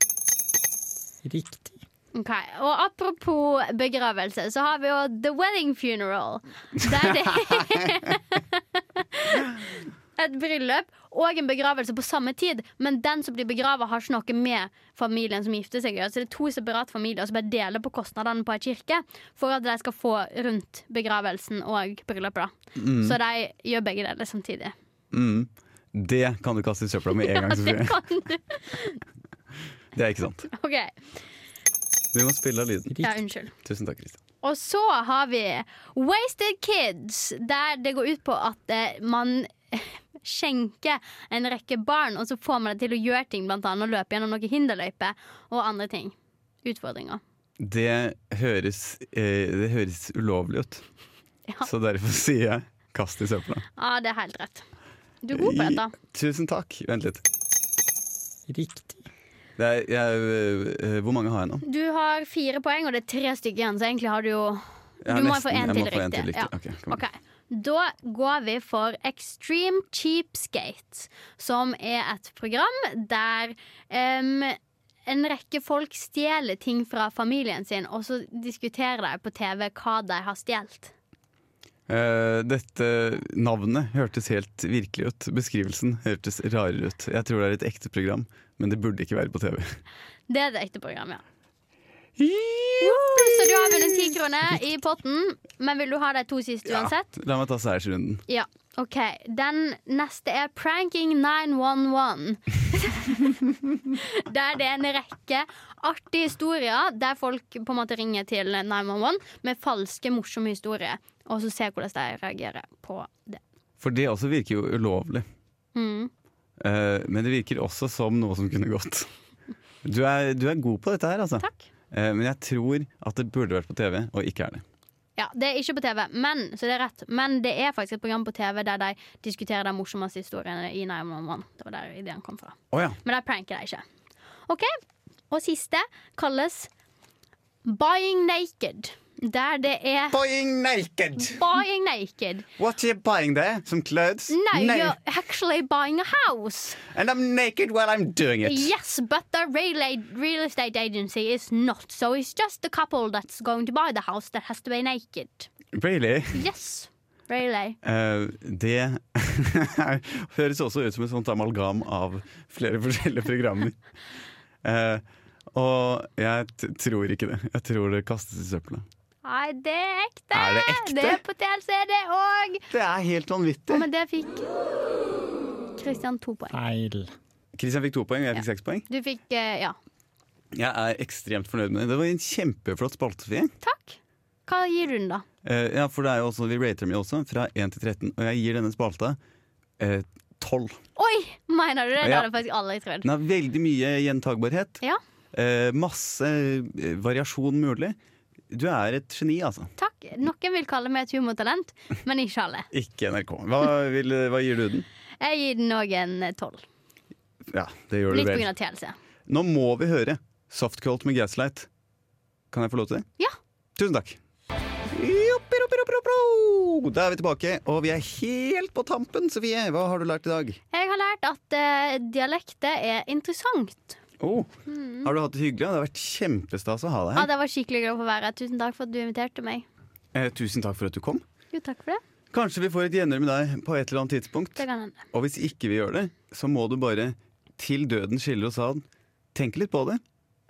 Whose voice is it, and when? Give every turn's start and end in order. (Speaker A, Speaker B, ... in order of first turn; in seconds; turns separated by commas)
Speaker A: 1.2-1.8, Speaker B: 2.1-24.7, Speaker C: 7.2-8.0, Speaker C: 22.8-23.2, Speaker C: 25.1-28.0, Speaker B: 27.1-29.0, Speaker C: 29.9-30.5, Speaker B: 30.5-31.1, Speaker C: 32.1-33.0, Speaker A: 32.9-33.2, Speaker B: 33.0-33.5, Speaker C: 33.6-34.2, Speaker B: 34.4-47.2, Speaker C: 47.6-50.8, Speaker C: 51.6-53.7, Speaker B: 53.8-54.7, Speaker B: 55.2-55.9, Speaker C: 55.3-57.2, Speaker A: 58.5-59.1, Speaker C: 59.6-61.6, Speaker B: 61.6-80.9, Speaker C: 65.0-67.0, Speaker C: 81.9-89.8, Speaker B: 90.3-91.2, Speaker C: 92.2-94.2, Speaker B: 92.8-97.1, Speaker C: 96.7-98.2, Speaker B: 98.3-113.4, Speaker C: 113.8-115.2, Speaker B: 115.8-116.1, Speaker C: 116.6-119.1, Speaker C: 119.8-124.6, Speaker B: 125.2-133.8, Speaker C: 132.7-133.0, Speaker B: 134.5-134.8, Speaker B: 135.3-136.7, Speaker B: 137.7-140.2, Speaker C: 140.1-141.4, Speaker B: 141.2-142.5, Speaker C: 142.6-144.9, Speaker B: 144.3-146.8, Speaker C: 146.9-148.7, Speaker B: 148.4-155.5, Speaker C: 155.7-156.5, Speaker B: 156.3-157.8, Speaker C: 157.8-163.8, Speaker C: 164.6-168.8, Speaker B: 169.2-172.7, Speaker C: 170.3-171.2, Speaker C: 172.7-173.8, Speaker B: 173.7-174.5, Speaker B: 175.8-176.5, Speaker A: 176.5-177.1, Speaker C: 177.6-178.9, Speaker B: 178.3-179.8, Speaker C: 180.5-183.5, Speaker B: 183.6-185.2, Speaker C: 185.4-189.2, Speaker C: 189.8-190.8, Speaker B: 191.0-193.1, Speaker C: 192.0-192.3, Speaker C: 193.0-194.8, Speaker C: 195.3-198.0, Speaker C: 198.5-199.7, Speaker B: 199.8-202.7, Speaker C: 202.7-204.9, Speaker B: 205.2-206.6, Speaker C: 207.5-208.5, Speaker B: 208.1-209.0, Speaker C: 209.3-211.7, Speaker C: 212.5-213.1, Speaker C: 213.8-214.2, Speaker C: 214.9-220.6, Speaker B: 220.7-224.0, Speaker C: 224.2-224.5, Speaker B: 224.7-225.1, Speaker C: 225.0-227.3, Speaker B: 227.2-229.7, Speaker C: 230.1-231.2, Speaker B: 231.5-232.0, Speaker C: 232.3-240.0, Speaker B: 234.6-235.0